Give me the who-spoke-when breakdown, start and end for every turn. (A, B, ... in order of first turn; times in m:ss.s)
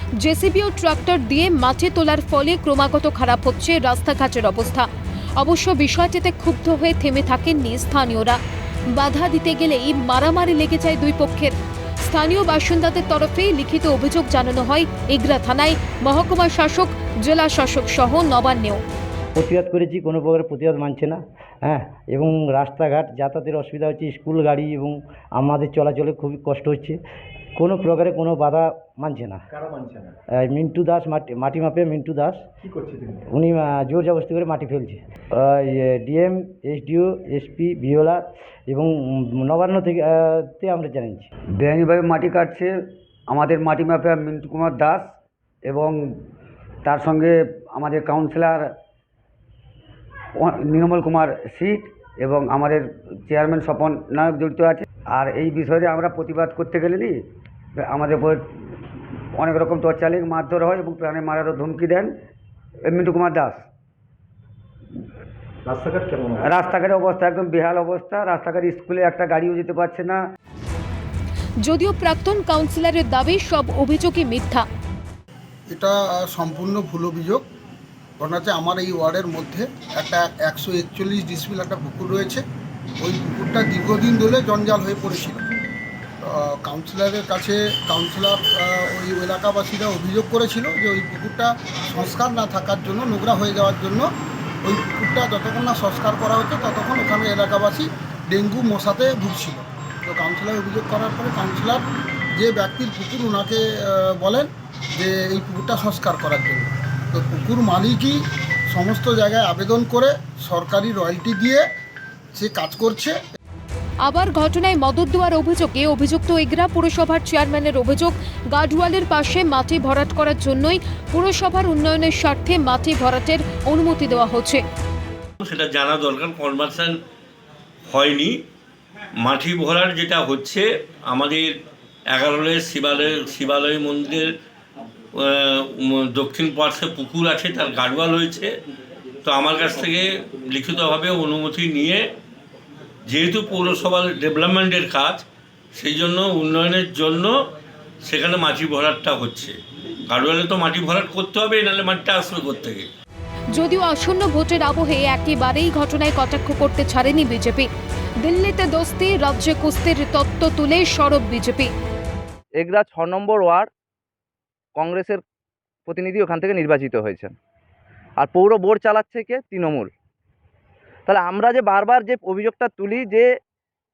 0:00.2-0:08.4 A
0:08.9-0:18.8 A
0:19.4-0:27.0 B
0:27.6-0:29.4 B
0:29.5-0:30.1 C
0:30.3-0:32.5 B
0:32.6-0:33.2 C
0:33.3-0:41.3 B
0:41.6-0:42.7 D
0:43.3-0:45.2 D
0:45.7-0:46.1 D
0:46.8-0:48.7 D
0:50.4-0:57.2 D
0:57.8-0:58.4 D
0:59.4-1:02.1 D
1:02.9-1:03.6 D
1:05.6-1:06.5 C
1:06.4-1:10.2 D
1:11.6-1:14.7 A
1:15.7-1:17.4 E
1:18.2-1:22.4 E
1:23.0-1:25.4 E
1:26.2-1:34.1 E
1:34.6-1:51.6 E
1:52.3-1:53.2 E
1:54.0-2:04.6 A
2:05.4-2:07.0 F
2:07.9-2:08.4 F
2:09.2-2:11.5 F
2:12.1-2:14.3 F
2:15.2-2:18.5 F
2:19.2-2:22.0 F
2:23.1-2:25.2 F
2:25.8-2:27.3 F
2:28.0-2:29.6 F
2:30.1-2:32.9 F
2:33.5-2:37.7 A
2:38.2-2:41.7 A
2:42.6-2:43.7 G
2:44.8-2:45.2 G
2:45.9-2:47.3 G
2:48.2-2:49.9 G
2:51.1-2:53.2 G